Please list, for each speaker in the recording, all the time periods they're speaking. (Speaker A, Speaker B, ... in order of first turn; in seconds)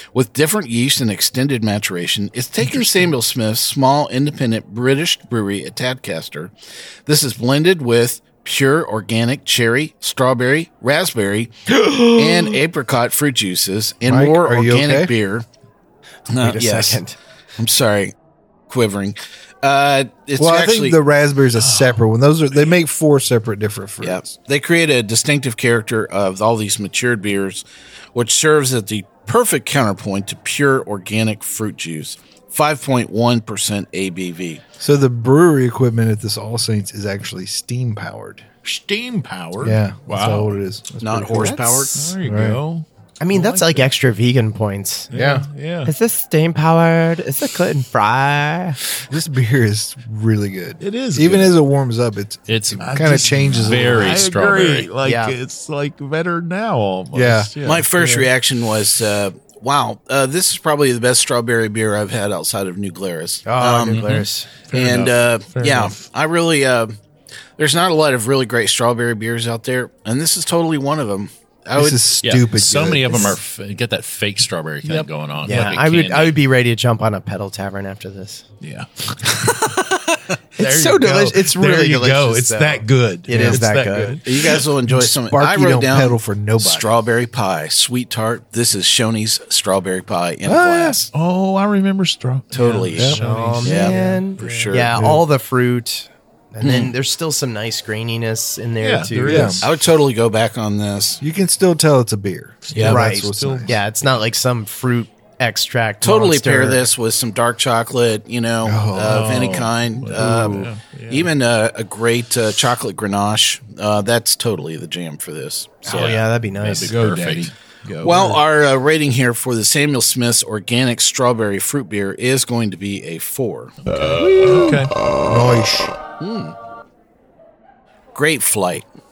Speaker A: 0.1-6.5, 7.1-15.4, 16.3-17.0, 17.6-18.1, 18.7-21.0, 24.0-34.6, 41.0-42.1, 57.6-67.0, 67.6-72.1, 84.2-91.1, 92.5-95.1, 96.6-96.9, 99.6-101.2, 102.7-103.0, 106.0-116.1, 118.0-123.8, 126.2-126.5, 128.2-128.9
Speaker B: 2.7-3.1, 21.6-22.0, 38.6-40.4, 41.9-43.9, 45.1-45.9, 50.8-51.5, 52.8-58.3, 64.7-66.0, 74.8-75.8, 78.6-79.7, 80.6-84.7, 91.1-94.9, 98.8-99.8, 102.7-103.8, 109.1-111.3, 116.8-118.4, 123.9-125.0
Speaker C: 14.1-15.1, 20.4-24.3, 34.8-38.5, 39.6-42.6, 45.1-45.5, 49.1-54.2, 57.1-57.5, 71.8-73.4, 84.9-87.0, 90.5-91.0, 95.0-95.2, 99.3-99.6, 101.2-103.8, 108.6-109.5, 125.2-125.9
Speaker D: 16.4-17.2, 41.4-41.9, 43.2-45.1, 45.9-48.8, 55.0-55.4, 63.5-64.5, 75.4-78.5, 80.6-84.2, 93.1-99.6, 102.8-106.8, 110.1-110.7, 115.8-117.0
Speaker E: 40.1-40.5, 52.5-53.1, 53.6-54.9, 64.0-64.3, 72.2-76.4, 115.8-117.5